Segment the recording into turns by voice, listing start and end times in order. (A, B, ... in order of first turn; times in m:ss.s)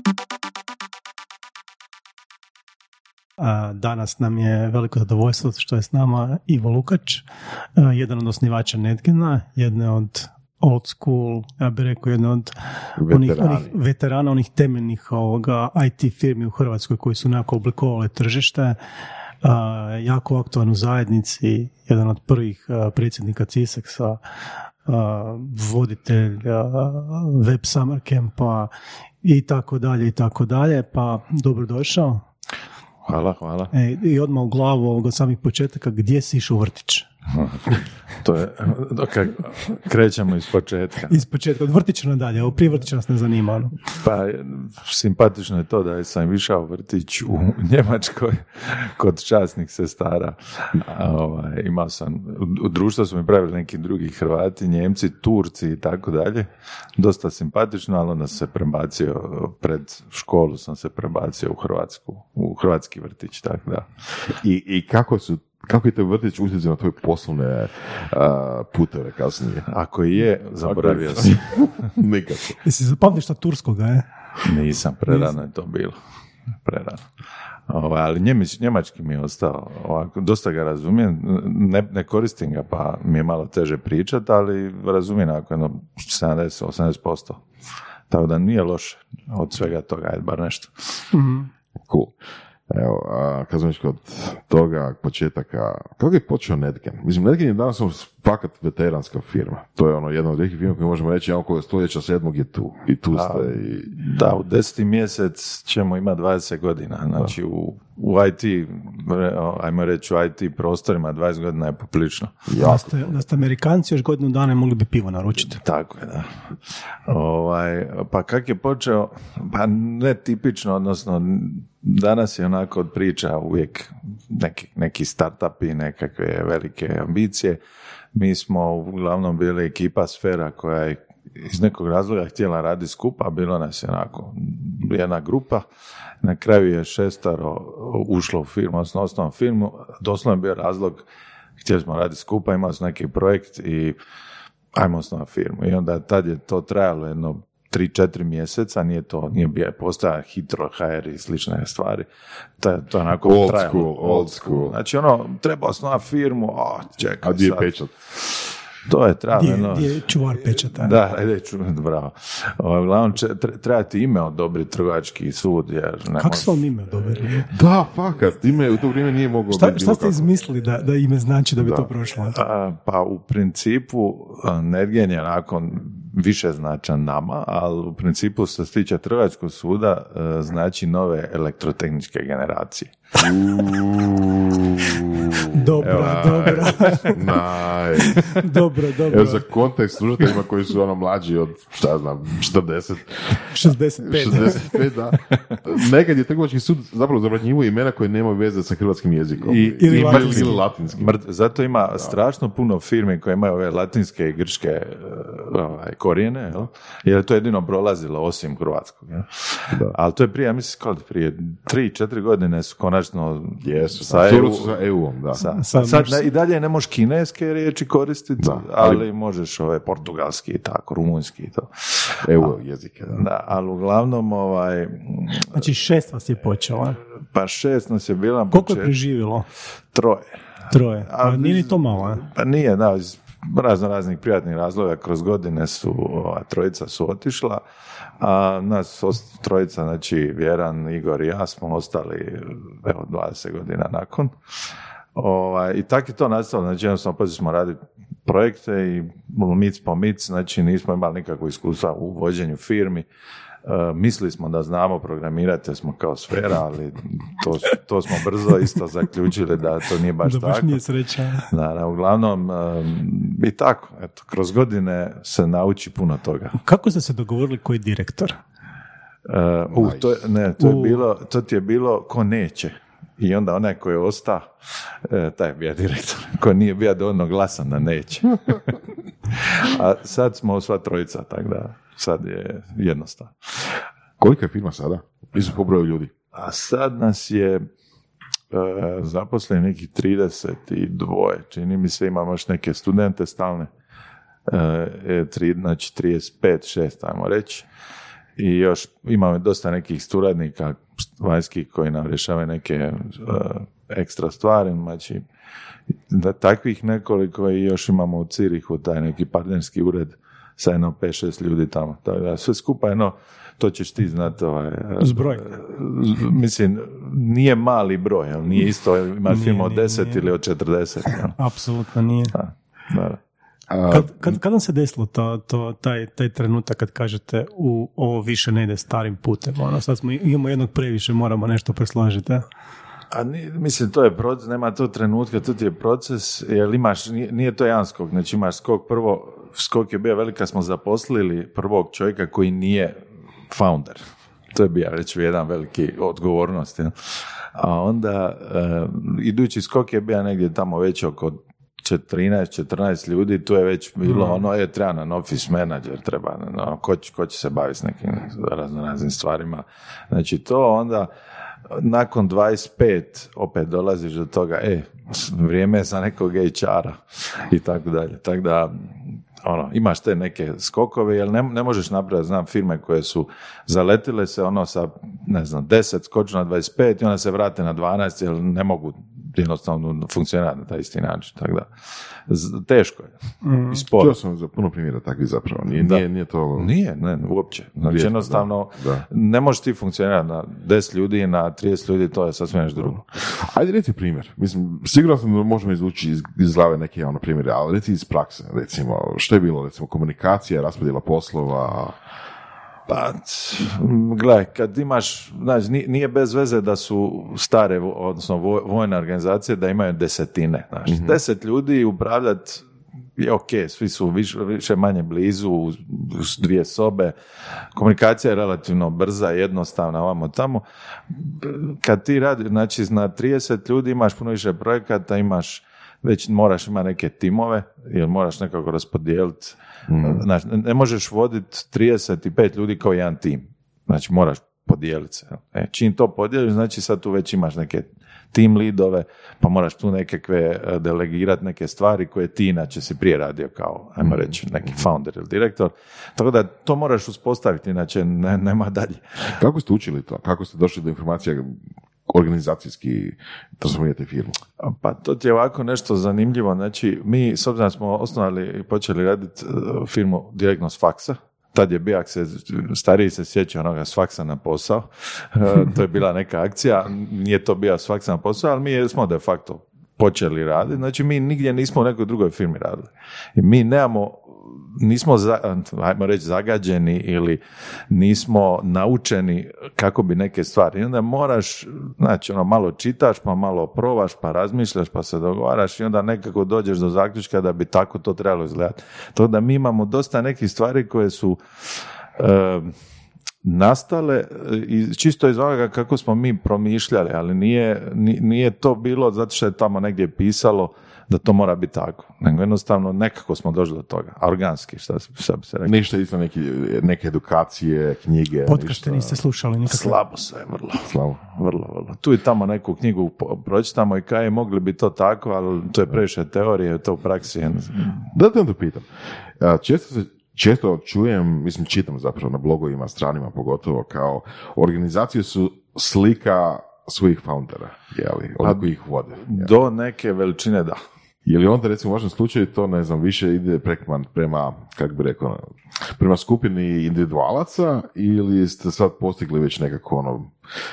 0:03.4-0:12.6 A
0:13.0-0:13.8 B
0:13.1-0:18.8 A
0:19.4-0:24.2 A
0:24.9-0:28.7 A
0:29.2-0:32.2 A
0:33.1-0:33.7 C
0:33.7-0:37.1 A
0:37.3-0:41.2 C
0:41.1-0:43.8 A
0:44.0-1:03.9 C
1:04.4-1:09.7 B
1:09.7-1:11.7 C
1:10.6-1:12.6 B
1:12.6-1:14.1 A
1:14.4-1:16.0 C
1:16.6-1:17.0 C
1:17.7-1:27.4 C
1:28.1-1:31.0 C
1:31.1-1:31.5 A
1:31.9-1:32.2 B
1:32.7-1:43.9 B
1:43.1-1:52.9 C
1:52.5-1:52.8 B
1:52.6-1:55.6 A
1:55.5-1:56.3 C
1:57.1-2:07.6 C
2:08.1-2:15.6 C
2:16.2-2:21.1 C
2:21.6-2:24.0 C
2:24.7-2:32.1 C
2:32.6-2:37.7 C
2:33.2-2:34.8 B
2:37.2-2:37.9 B
2:38.9-2:47.2 C
2:39.3-2:41.0 A
2:46.2-2:47.5 A
2:47.5-2:50.2 B
2:49.5-2:52.4 A
2:51.6-2:51.9 B
2:52.3-3:03.3 C
3:03.2-3:06.5 B
3:05.5-3:07.4 A
3:05.8-3:07.1 C
3:07.1-3:08.4 B
3:08.0-3:09.5 A
3:09.1-3:21.2 B
3:13.5-3:14.9 A
3:19.4-3:34.8 C
3:19.8-3:20.6 A
3:33.6-3:35.4 B
3:35.3-3:42.5 C
3:35.5-3:36.2 A
3:38.4-3:39.0 B
3:42.2-3:43.2 B
3:43.1-3:45.6 C
3:45.5-3:47.0 A
3:47.3-3:48.9 C
3:48.5-3:49.5 A
3:49.9-3:50.3 C
3:50.7-3:52.2 A
3:51.0-3:57.6 C
3:58.2-4:04.3 C
4:05.2-4:13.1 C
4:13.6-4:20.8 C
4:20.2-4:21.5 A
4:21.5-4:26.6 C
4:26.6-4:28.4 A
4:29.3-4:34.5 C
4:29.7-4:30.1 B
4:30.6-4:31.0 A
4:35.0-4:43.7 C
4:44.2-4:46.1 B
4:46.3-4:47.7 C
4:48.5-4:53.7 C
4:54.5-4:57.6 C
4:58.4-5:05.2 C
5:06.1-5:21.4 C
5:15.0-5:15.5 A
5:19.3-5:20.3 A
5:21.4-5:22.3 A
5:22.3-5:23.2 C
5:23.7-5:24.1 B
5:23.9-5:32.5 A
5:33.1-5:43.0 C
5:43.5-5:46.9 C
5:47.5-6:01.1 C
5:54.1-5:54.4 A
6:01.7-6:21.7 C
6:22.3-6:23.2 C
6:23.4-6:23.8 A
6:23.7-6:24.2 C
6:24.0-6:26.7 B
6:26.6-6:33.1 C
6:27.9-6:29.1 B
6:33.2-6:42.0 B
6:42.9-6:52.6 C
6:50.9-6:51.2 B
6:53.2-6:57.2 C
6:57.8-7:29.0 C
7:09.9-7:10.2 B
7:29.4-7:34.4 B
7:34.6-8:11.4 C
8:12.2-8:12.8 C
8:13.4-8:25.8 C
8:25.6-8:29.2 B
8:28.5-8:30.0 A
8:29.7-8:38.1 C
8:30.9-8:31.2 B
8:38.1-8:49.5 B
8:49.2-8:50.8 C
8:51.2-9:00.3 B